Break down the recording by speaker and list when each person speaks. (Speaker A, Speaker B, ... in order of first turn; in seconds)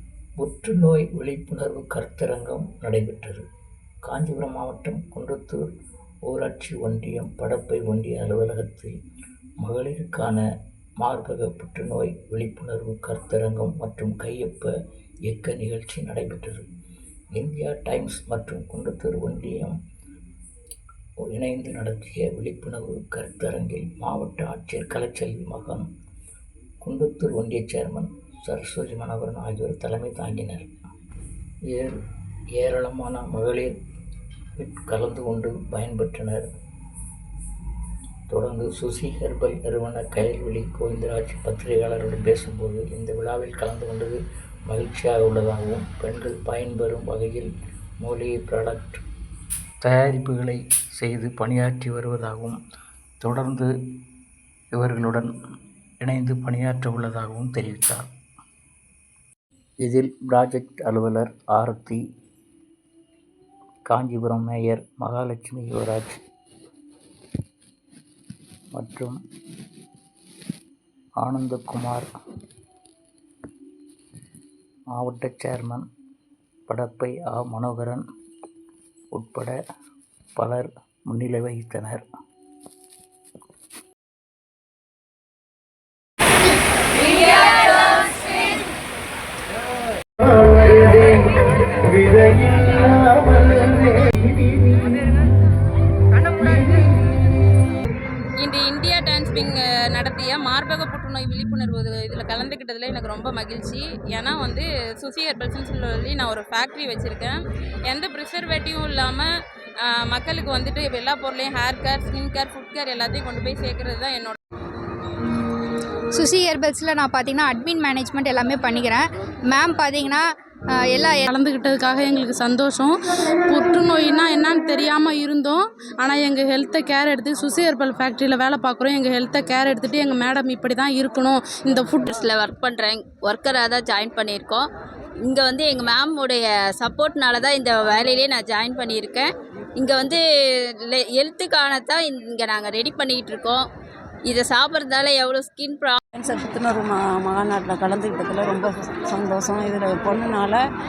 Speaker A: 0.4-3.5, 4.0-5.7, 6.3-8.9, 9.6-10.4, 11.0-14.7, 15.3-16.6, 17.4-19.7, 21.3-25.9, 26.8-30.7, 31.7-32.0, 32.6-33.8, 34.6-36.5, 38.3-47.5, 48.0-49.0, 49.8-52.6, 53.2-53.7, 54.8-55.3, 56.0-58.1, 59.8-62.0, 63.9-66.2, 68.7-69.2, 71.2-72.1, 74.9-75.9, 76.7-78.0, 79.1-79.6, 80.4-82.0
Speaker B: 87.5-87.9, 132.0-134.7, 135.2-143.7, 144.2-146.0
Speaker C: 98.4-109.3, 109.8-114.4
Speaker D: 116.1-120.2, 120.8-121.2
Speaker E: 121.2-132.1
Speaker F: 146.1-150.6